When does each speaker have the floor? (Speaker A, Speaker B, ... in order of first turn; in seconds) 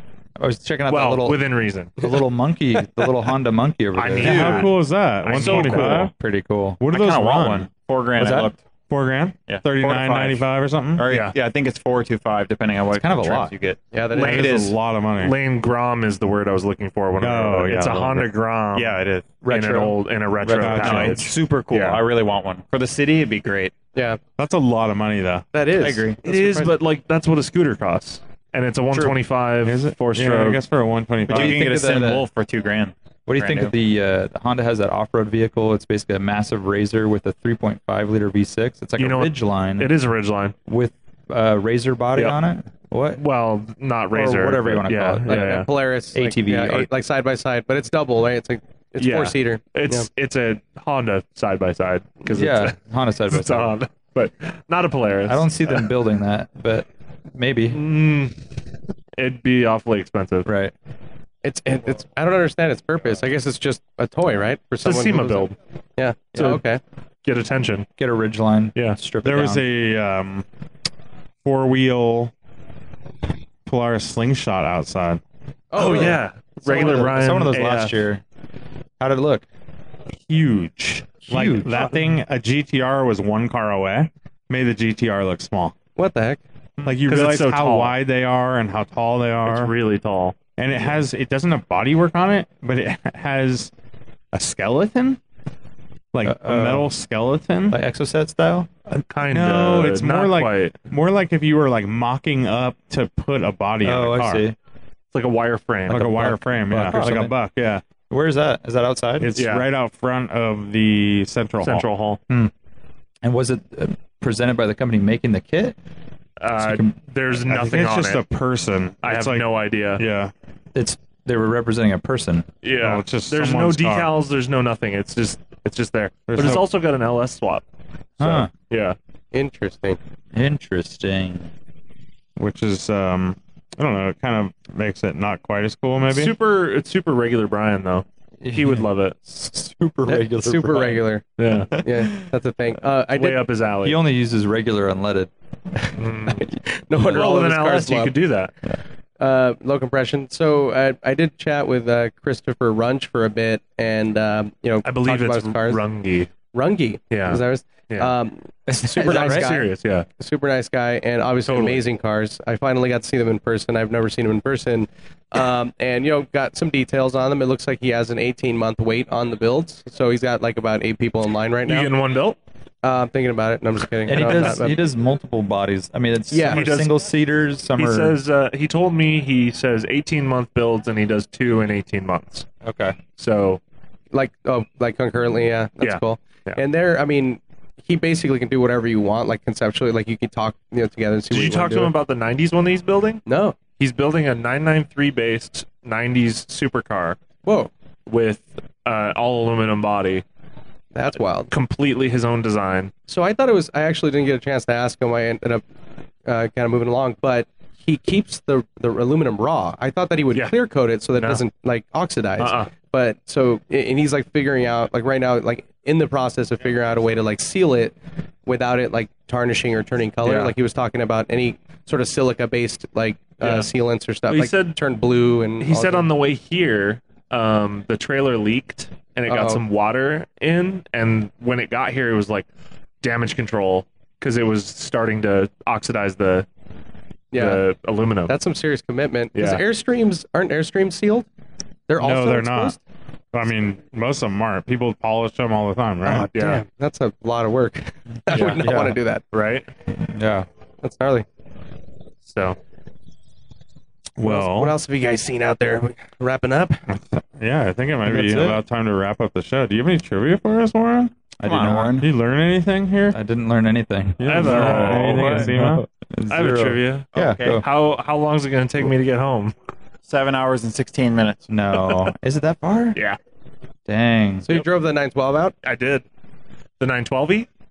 Speaker A: 0.4-1.4, 2.0-4.7, 5.4-6.8, 8.2-8.5, 12.9-13.5, 19.4-21.2, 31.3-32.2, 33.3-39.9, 40.7-43.2, 44.1-45.5, 46.1-46.9, 52.3-53.7, 55.2-57.8, 60.5-60.7, 66.3-66.6, 68.0-69.6, 75.8-78.2, 79.0-79.4, 81.3-82.0, 96.2-96.9, 97.7-98.7, 103.8-104.5, 106.0-107.3, 108.1-109.3, 113.2-115.8, 116.6-116.9, 120.7-122.5, 128.2-128.5, 130.3-131.5, 138.4-141.0, 141.7-142.2, 143.8-145.3, 158.7-159.5, 174.1-178.2, 182.6-183.0, 248.6-249.0, 250.0-250.5, 258.0-258.6, 261.4-262.0, 263.1-267.6, 271.5-273.0, 273.9-274.5
Speaker B: 0.9-2.0, 3.9-6.1, 11.1-11.4, 15.2-22.0, 26.2-30.6, 39.0-40.5, 43.1-45.7, 49.0-52.8, 53.3-55.9, 57.7-58.3, 59.2-60.5, 64.8-65.5, 67.2-67.9, 75.8-78.0, 87.0-87.9, 89.4-90.3, 98.9-100.8, 105.1-106.3, 109.3-109.7, 111.6-112.2, 116.4-118.2, 119.0-120.0, 122.6-127.6, 128.2-129.0, 136.1-139.2, 141.4-141.7, 143.1-144.0, 145.9-146.5, 147.0-148.5, 154.8-156.3, 157.1-158.1, 159.0-160.1, 161.4-161.8, 171.7-172.4, 174.2-174.5, 176.4-176.9, 177.8-182.4, 183.2-183.6, 185.8-186.6, 191.3-193.2, 193.8-197.2, 198.1-200.2, 201.5-202.9, 211.2-211.4, 212.4-212.7, 220.2-220.5, 223.4-223.7, 224.3-224.8, 225.6-232.5, 233.0-236.5, 237.3-238.3, 239.3-239.6, 246.3-246.6, 248.3-248.7, 249.3-249.7, 252.2-252.6, 264.2-265.5, 266.3-269.5, 275.6-276.0, 276.8-277.5
Speaker C: 4.2-4.6, 6.9-8.6, 9.5-14.8, 18.7-19.4, 20.8-23.7, 25.8-26.2, 31.3-33.7, 261.4-262.1, 267.1-267.6, 270.0-271.4
Speaker D: 4.2-6.1, 6.8-7.7, 8.9-11.1, 14.2-15.3, 17.2-18.3, 20.6-21.2, 24.4-25.4, 29.6-31.7, 69.2-70.4, 71.4-72.3, 73.7-75.2, 80.2-85.7, 86.8-89.7, 90.6-93.7, 94.3-95.2, 96.1-97.8, 99.3-104.4, 105.9-107.8, 109.2-111.9, 117.5-120.3, 122.8-124.1, 126.3-126.7, 132.4-136.3, 242.0-242.8, 243.3-246.3, 254.2-254.7, 256.9-261.2, 262.0-263.2, 264.2-265.8
Speaker E: 13.9-14.6, 23.9-24.2, 25.5-26.7, 45.3-50.1, 61.4-66.8, 75.7-77.1, 86.0-86.4, 129.3-130.0, 140.1-141.3, 141.8-143.5, 146.4-148.2, 149.2-155.8, 156.5-171.9, 172.8-174.8, 176.3-176.6, 184.1-191.9, 193.2-193.6, 197.4-197.7, 200.9-201.5, 203.1-205.6, 206.2-226.1, 229.3-229.6, 237.3-237.6, 238.3-241.2, 241.9-242.8, 246.1-249.2, 250.8-251.2, 254.2-256.8, 274.4-275.5